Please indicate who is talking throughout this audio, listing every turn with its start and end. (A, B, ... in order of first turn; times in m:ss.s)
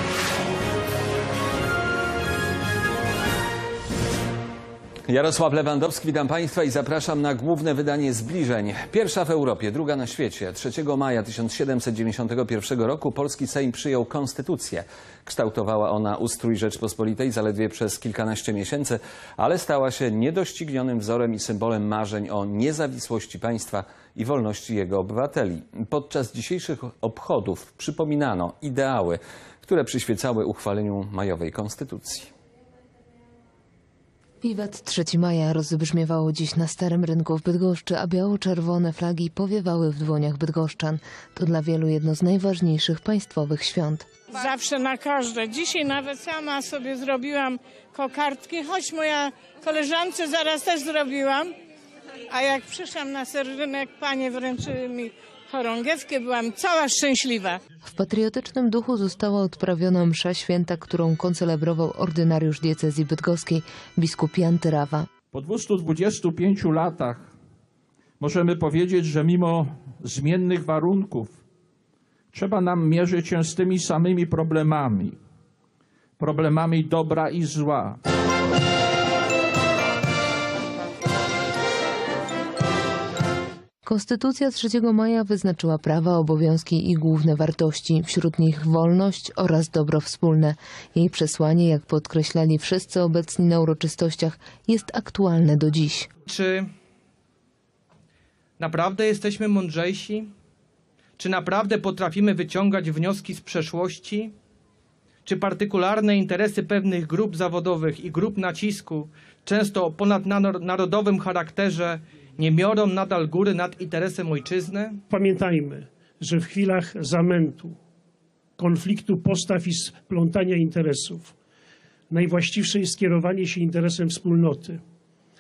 0:05.1-0:32.3 A
0:34.4-0:44.0 B
0:44.3-0:51.5 C
0:52.3-0:57.6 C
0:58.0-1:05.0 B
1:05.3-1:07.3 D
1:08.2-1:11.4 D
1:12.3-1:15.2 D
1:16.2-1:18.0 D
1:23.9-1:36.0 B
1:36.3-1:36.7 E
1:38.6-1:40.3 E
1:41.2-1:44.3 E
1:45.2-1:55.0 E
1:55.1-1:57.8 F
1:58.6-2:01.3 F
2:02.1-2:04.8 F